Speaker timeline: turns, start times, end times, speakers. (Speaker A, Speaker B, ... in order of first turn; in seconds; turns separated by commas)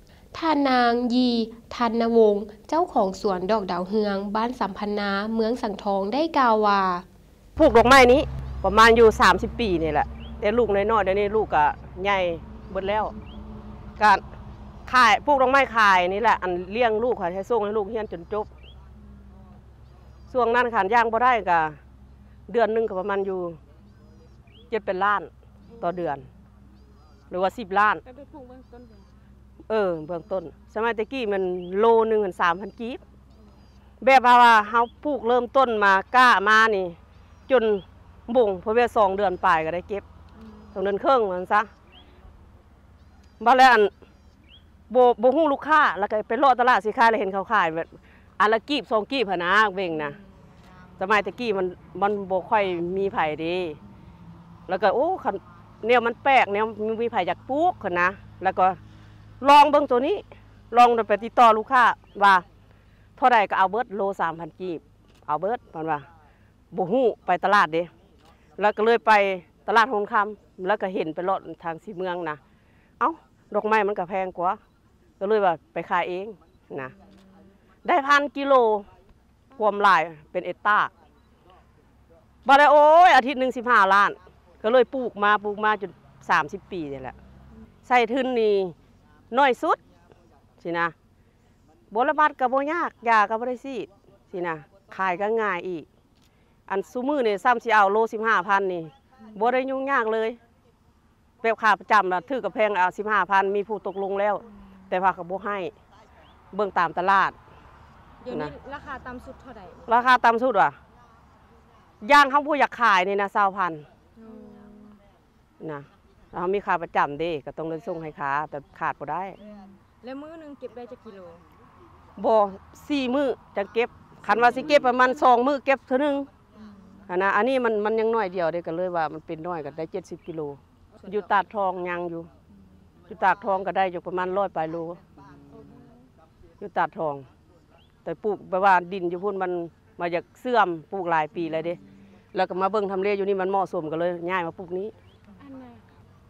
Speaker A: 0.3-7.1, Speaker B: 7.6-13.1, Speaker B: 14.9-18.5, Speaker B: 20.3-21.8, Speaker B: 22.5-23.6, Speaker B: 24.7-26.3, Speaker B: 27.3-28.0, Speaker C: 28.1-29.1, Speaker B: 29.7-33.0, Speaker B: 34.0-37.0, Speaker B: 37.5-40.0, Speaker C: 40.4-40.8, Speaker B: 40.7-41.7, Speaker B: 43.4-43.9, Speaker B: 44.9-50.2, Speaker C: 49.9-50.3, Speaker B: 51.0-53.8, Speaker B: 54.7-58.8, Speaker B: 59.4-62.5, Speaker B: 63.2-66.1, Speaker B: 66.7-67.9, Speaker B: 68.6-72.4, Speaker B: 73.0-74.6, Speaker B: 75.2-76.9, Speaker C: 76.8-77.5, Speaker B: 77.8-78.9, Speaker B: 79.5-80.9, Speaker B: 82.5-87.2, Speaker B: 87.8-88.8, Speaker B: 89.3-89.8, Speaker B: 90.6-90.9, Speaker B: 91.9-95.9, Speaker B: 96.7-100.4, Speaker C: 99.2-99.5, Speaker B: 101.4-105.7, Speaker C: 104.5-104.8, Speaker B: 106.5-107.4, Speaker C: 108.2-109.9, Speaker B: 109.9-110.8, Speaker B: 112.0-113.9, Speaker C: 114.2-115.0, Speaker B: 115.6-119.4, Speaker C: 119.4-121.5, Speaker B: 122.2-126.3, Speaker C: 126.5-127.1, Speaker B: 127.1-132.3, Speaker C: 130.9-131.3, Speaker B: 133.1-135.0, Speaker C: 135.5-136.1, Speaker B: 136.6-137.3, Speaker B: 138.0-141.8, Speaker B: 142.3-144.9, Speaker C: 145.3-145.9